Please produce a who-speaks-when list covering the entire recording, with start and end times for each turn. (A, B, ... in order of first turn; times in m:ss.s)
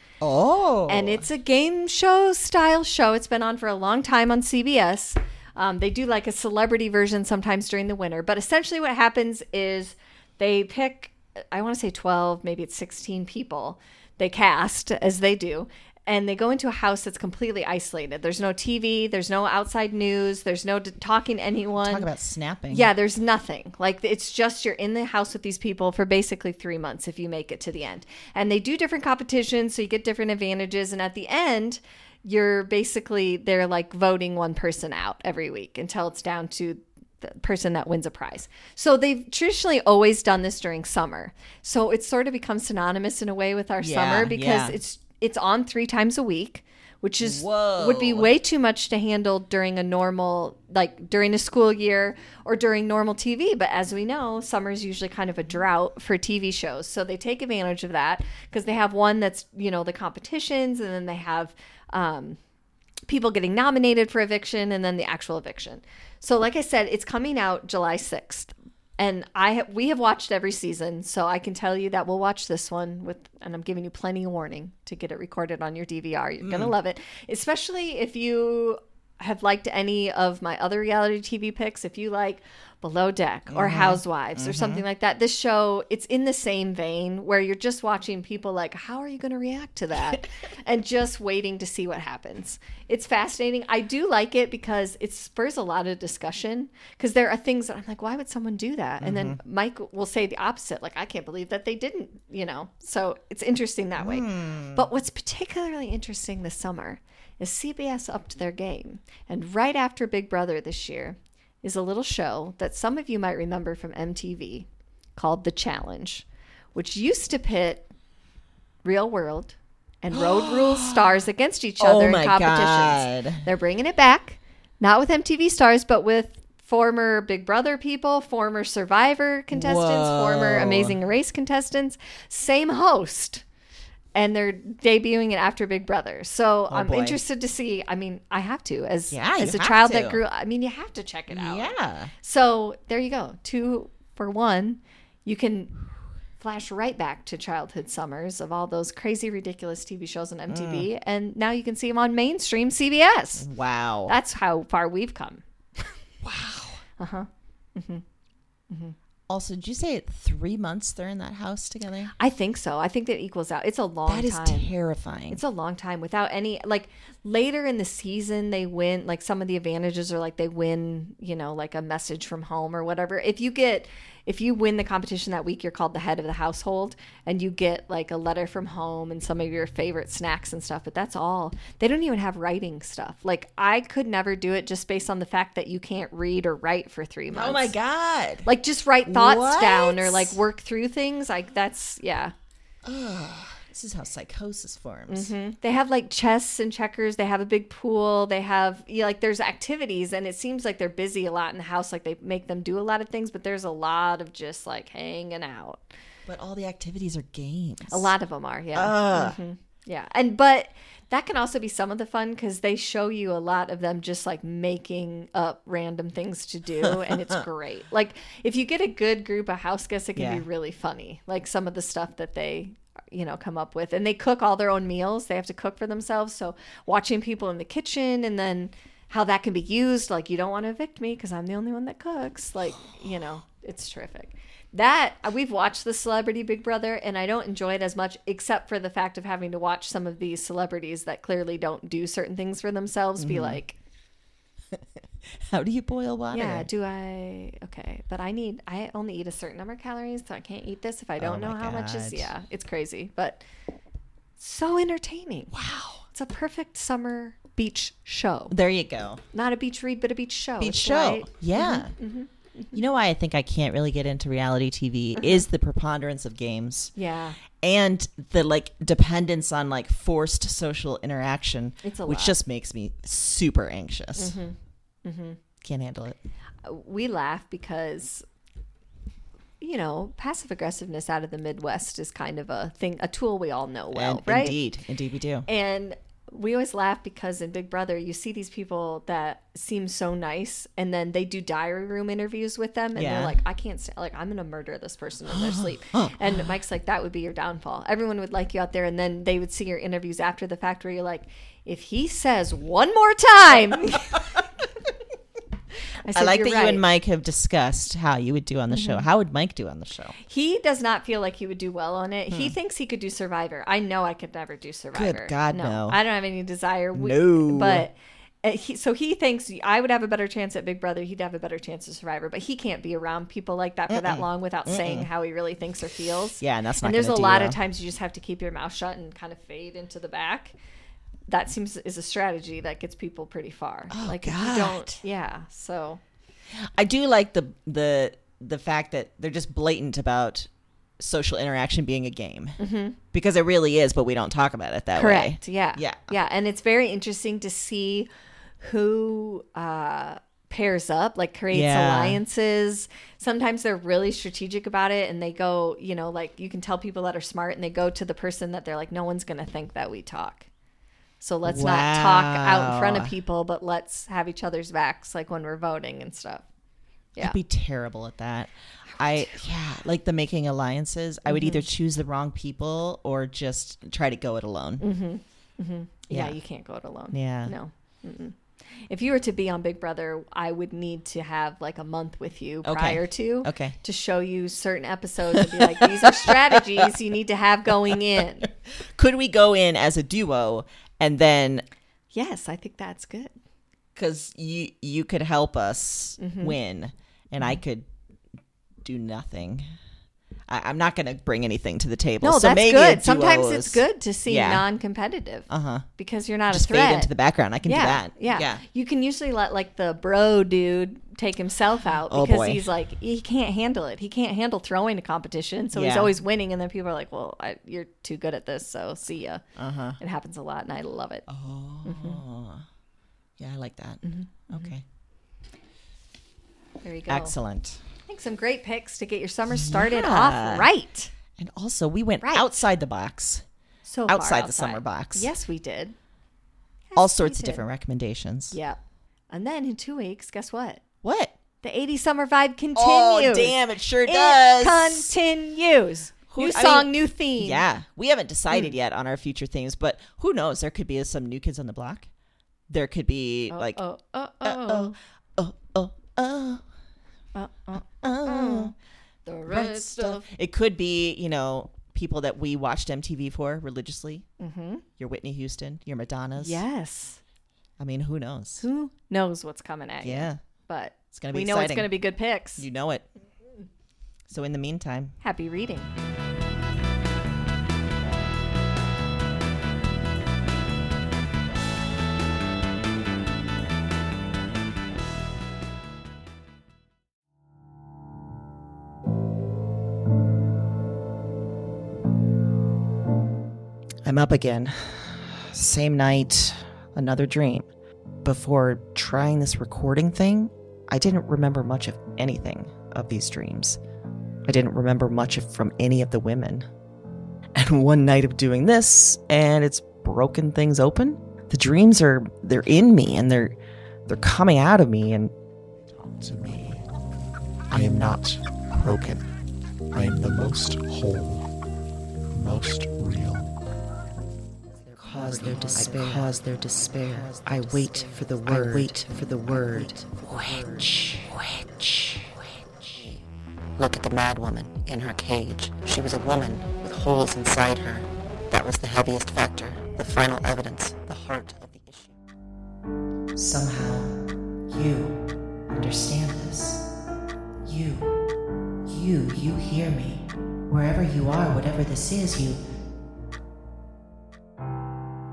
0:00.2-0:01.2 A
0:00.9-0:22.1 B
0:21.8-0:22.9 A
0:22.7-1:02.4 B
0:43.8-0:44.8 A
0:47.2-0:48.3 A
1:03.1-1:57.9 B
1:16.4-1:16.7 A
1:23.5-1:24.8 A
1:30.0-1:30.2 A
1:39.0-1:39.4 A
1:44.0-1:44.8 A
1:58.8-2:13.4 B
2:00.1-2:01.0 A
2:01.8-2:03.4 A
2:09.5-2:11.0 A
2:14.2-2:25.8 B
2:16.7-2:17.2 A
2:19.1-2:20.2 A
2:21.3-2:22.1 A
2:26.4-2:33.5 B
2:30.5-2:30.9 A
2:33.4-2:34.2 A
2:34.1-2:35.9 B
2:36.2-2:36.8 A
2:37.0-2:38.0 B
2:38.7-2:39.0 B
2:39.3-2:42.1 A
2:42.2-2:44.7 B
2:44.1-2:45.4 A
2:45.3-3:07.8 B
3:07.3-3:08.5 A
3:08.4-3:12.3 B
3:09.0-3:10.4 A
3:12.8-3:15.3 A
3:15.1-3:25.8 B
3:26.3-3:28.1 A
3:27.9-4:03.8 B
3:28.7-3:29.4 A
3:36.8-3:37.4 A
3:40.2-3:40.4 A
4:03.2-4:03.6 A
4:04.7-4:06.7 A
4:06.3-4:13.4 B
4:11.2-4:12.3 A
4:14.4-4:15.5 B
4:15.5-4:16.0 A
4:16.1-4:18.5 B
4:18.5-4:19.2 A
4:19.3-4:22.8 B
4:20.6-4:21.9 A
4:22.7-4:26.9 A
4:25.2-4:25.4 B
4:27.0-4:27.4 B
4:27.5-4:34.4 A
4:31.8-4:32.4 B
4:34.2-4:35.4 B
4:35.6-4:36.2 A
4:36.6-4:38.2 B
4:39.6-4:44.6 B
4:43.9-4:45.5 A
4:45.5-5:04.2 B
4:53.0-4:53.4 A
4:55.3-4:56.5 A
5:06.0-5:06.8 B
5:06.1-5:10.2 A
5:08.7-5:09.1 B
5:10.3-5:30.6 B
5:14.9-5:16.0 A
5:17.0-5:17.9 A
5:23.9-5:25.1 A
5:26.4-5:27.6 A
5:31.3-5:36.0 B
5:33.9-5:34.9 A
5:36.5-5:40.5 A
5:41.0-5:42.6 A
5:42.6-5:43.0 B
5:43.1-5:46.1 A
5:44.9-6:00.5 B
5:51.5-5:52.2 A
6:01.2-6:06.4 B
6:01.4-6:03.1 A
6:07.2-6:14.8 A
6:08.9-6:09.4 B
6:11.3-6:11.7 B
6:14.8-6:28.5 B
6:16.1-6:16.4 A
6:17.1-6:17.5 A
6:22.6-6:23.8 A
6:25.3-6:26.9 A
6:28.8-6:31.7 A
6:32.1-6:33.3 B
6:34.0-6:37.9 A
6:36.2-6:36.6 B
6:38.8-6:39.6 A
6:40.5-6:44.6 A
6:42.2-6:47.1 B
6:45.5-6:45.9 A
6:46.5-6:48.6 A
6:47.6-6:59.4 B
6:52.1-6:52.6 A
6:55.7-6:56.2 A
6:59.6-7:00.0 A
7:00.0-7:01.3 B
7:01.3-7:02.6 A
7:01.8-7:02.2 B
7:03.4-7:04.8 A
7:04.0-7:04.7 B
7:06.8-7:07.3 B
7:07.1-7:07.8 A
7:08.1-7:11.1 B
7:09.5-7:10.7 A
7:11.4-7:13.4 A
7:13.9-7:16.0 B
7:14.1-7:15.3 A
7:16.9-7:17.6 B
7:17.0-7:18.6 A
7:18.5-7:20.8 B
7:21.0-7:21.4 A
7:21.6-7:27.6 B
7:22.8-7:25.1 A
7:26.3-7:32.1 A
7:32.7-7:33.8 A
7:33.5-7:35.0 B
7:34.4-7:36.6 A
7:37.4-7:38.7 B
7:38.0-7:38.7 A
7:39.3-7:40.2 B
7:39.5-7:44.3 A
7:44.4-7:44.8 B
7:45.0-7:46.6 A
7:46.4-7:47.2 B
7:47.8-7:48.6 A
7:48.6-7:52.7 B
7:50.0-7:50.4 A
7:51.1-7:51.9 A
7:52.6-7:53.1 A
7:54.3-7:55.2 A
7:55.2-7:55.9 B
8:14.1-8:17.7 A
8:18.2-8:20.5 A
8:21.1-8:21.6 C
8:21.9-8:23.8 A
8:24.5-8:26.7 A
8:27.6-8:33.6 A
8:34.1-8:35.3 A
8:36.0-8:36.8 D
8:37.7-8:39.2 D
8:39.9-8:41.5 D
8:42.3-8:43.5 D
8:44.9-8:52.3 E
8:45.0-8:50.9 C
8:52.8-8:53.2 E
8:53.8-9:02.2 E
9:03.4-9:04.1 C
9:04.7-9:05.2 C
9:05.7-9:06.8 C
9:07.7-9:08.1 C
9:08.9-9:12.5 C